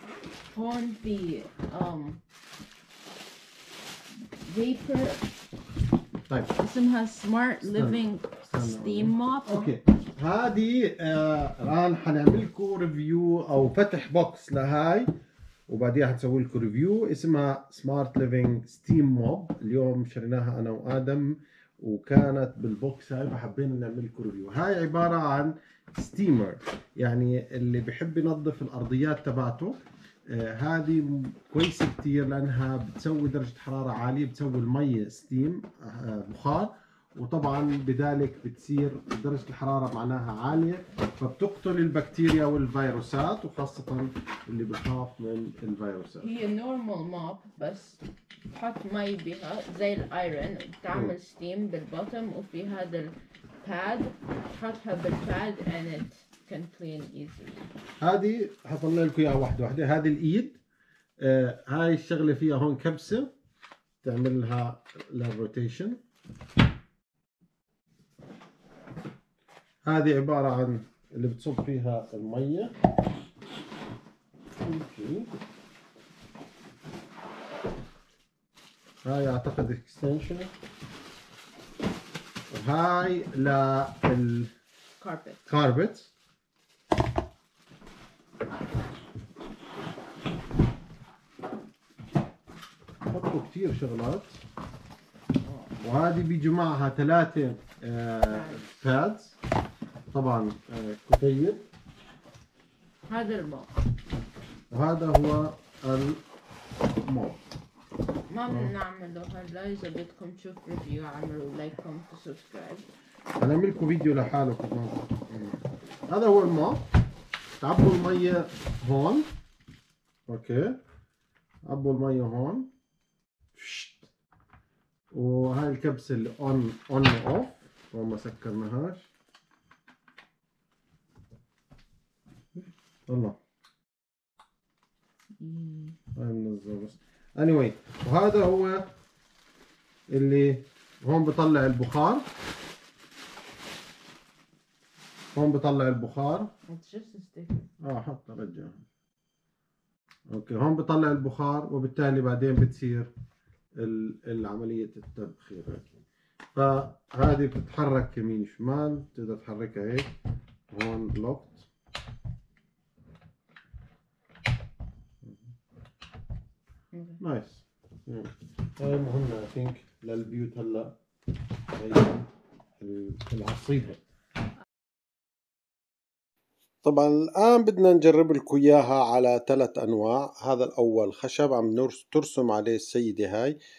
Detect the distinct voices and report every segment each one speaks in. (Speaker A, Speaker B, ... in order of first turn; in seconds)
Speaker A: 0.5-2.2, 4.4-5.3, 6.6-9.7, 46.2-57.6, 85.0-85.5, 98.3-98.7, 103.1-103.7, 108.3-112.9, 135.4-136.0, 146.7-147.7, 166.9-167.2
Speaker B: 6.3-6.5, 7.6-15.1, 15.7-29.8, 30.3-46.3, 58.0-60.6, 61.2-63.3, 64.0-66.0, 69.8-72.7, 74.6-75.3, 79.0-80.5, 82.5-84.5, 85.5-86.1, 93.1-94.4, 95.8-99.3, 100.1-101.6, 104.7-106.2, 107.0-107.4, 108.5-108.7, 113.4-116.8, 117.6-119.3, 120.3-120.8, 121.7-122.7, 123.5-124.1, 125.1-129.1, 132.6-133.4, 136.2-138.9, 140.1-142.3, 145.3-146.5, 147.8-148.8, 150.3-153.1, 153.8-155.9, 156.6-160.1, 160.7-161.7, 167.2-170.9, 171.7-172.3, 172.8-174.0, 176.8-183.6